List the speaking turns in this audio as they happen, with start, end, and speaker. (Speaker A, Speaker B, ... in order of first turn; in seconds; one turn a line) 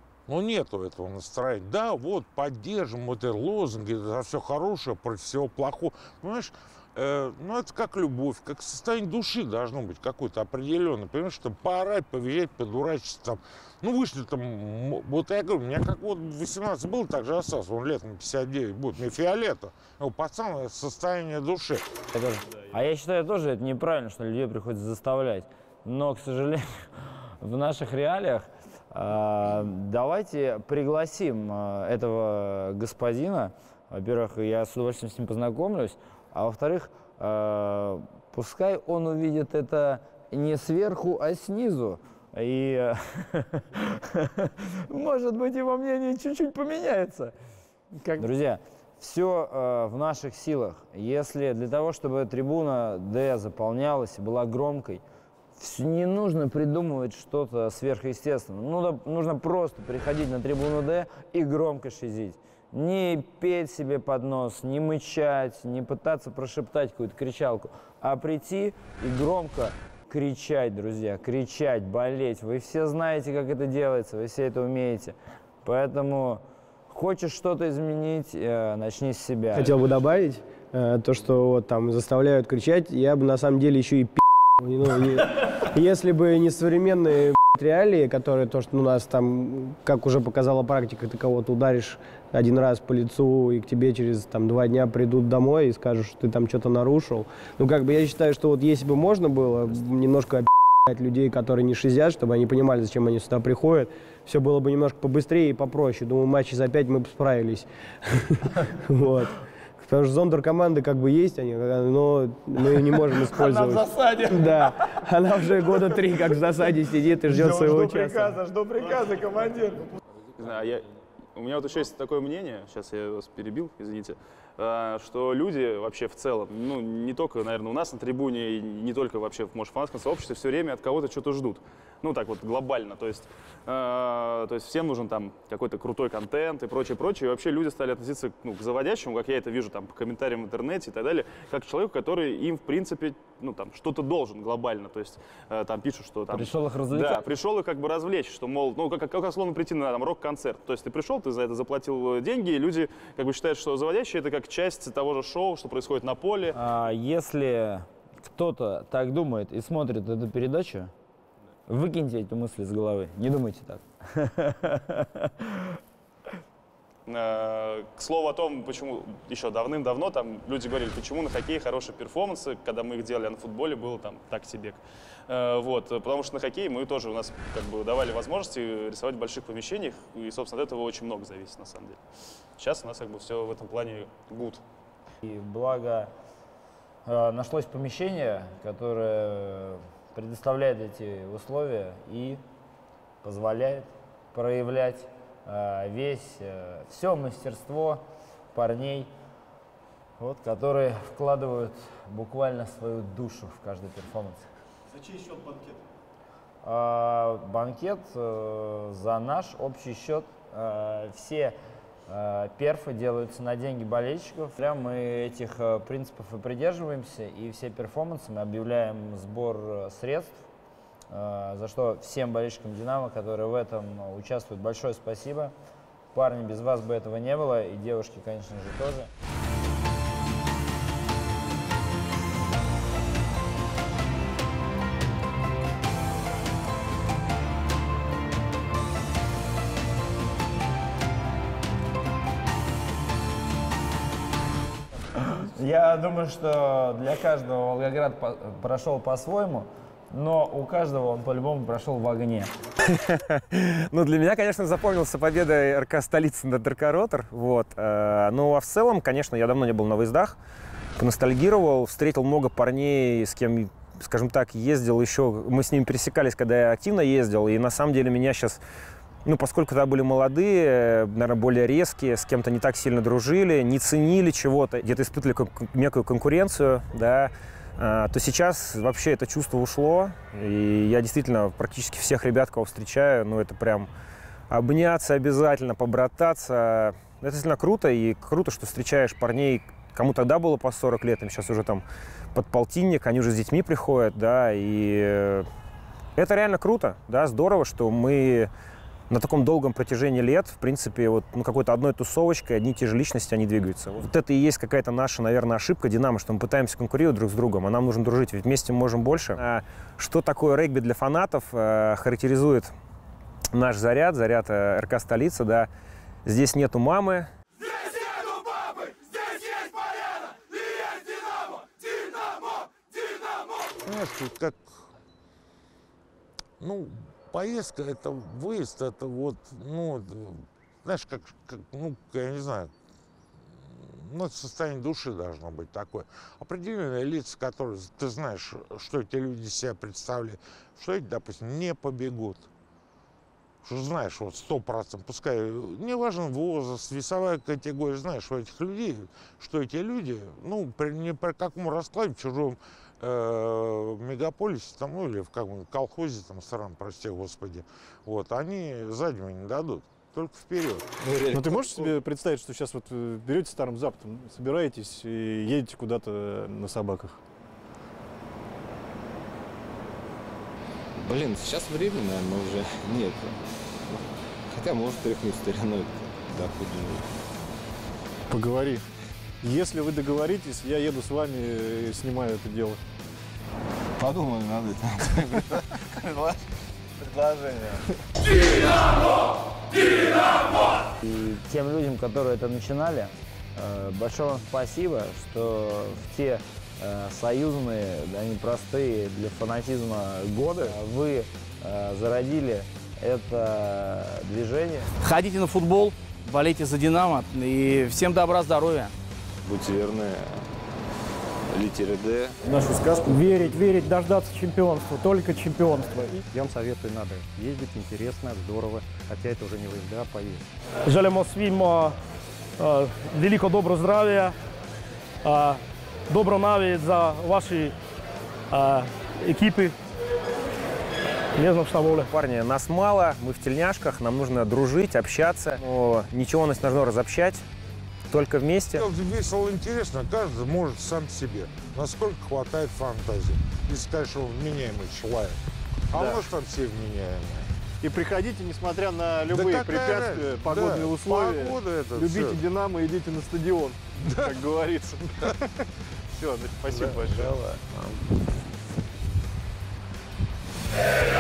Speaker A: 0.3-21.8
Speaker B: 22.1-47.3
Speaker B: 47.9-55.0
Speaker B: 55.6-79.8
Speaker C: 79.5-118.4
Speaker B: 113.2-114.7
Speaker B: 115.5-116.3
Speaker B: 117.2-119.9
Speaker D: 120.4-156.6
Speaker B: 146.3-147.3
Speaker B: 156.5-160.9
Speaker B: 161.7-165.5
Speaker D: 167.1-182.0
Speaker D: 182.6-184.6
Speaker B: 185.2-186.1
Speaker B: 187.1-192.4
Speaker B: 193.2-199.1
Speaker B: 200.2-204.5
Speaker E: 204.9-205.8
Speaker B: 206.6-211.6
Speaker B: 212.1-220.5
Speaker B: 221.1-225.5
Speaker B: 226.1-229.1
Speaker B: 245.2-252.5
Speaker F: 252.9-260.4
Speaker F: 261.0-268.6
Speaker F: 269.3-283.9
Speaker F: 284.5-291.8
Speaker F: 292.4-295.5
Speaker F: 296.2-298.5
Speaker F: 299.1-312.7
Speaker F: 313.5-315.7
Speaker F: 316.3-317.3
Speaker A: 323.8-324.8
Speaker A: 326.6-332.7
Speaker A: 333.6-342.5
Speaker A: 343.6-360.9
Speaker G: 361.0-362.0
Speaker E: 361.3-367.2
Speaker G: 371.0-373.4
Speaker G: 373.9-377.2
Speaker E: 378.3-378.8
Speaker E: 379.4-382.8
Speaker G: 384.0-386.4
Speaker G: 387.0-387.9
Speaker B: 391.0-404.9
Speaker H: 405.0-408.9
Speaker G: 409.4-410.5
Speaker G: 411.5-412.4
Speaker I: 412.9-416.2
Speaker J: 416.3-420.5
Speaker K: 420.9-422.0
Speaker K: 422.6-424.4
Speaker K: 425.2-427.7
Speaker K: 428.5-429.7
Speaker K: 431.4-432.1
Speaker F: 432.1-437.4
Speaker F: 438.1-438.9
Speaker A: 438.7-447.5
Speaker E: 445.9-446.2
Speaker E: 447.8-457.4
Speaker A: 449.3-452.4
Speaker A: 454.1-454.4
Speaker A: 456.7-458.3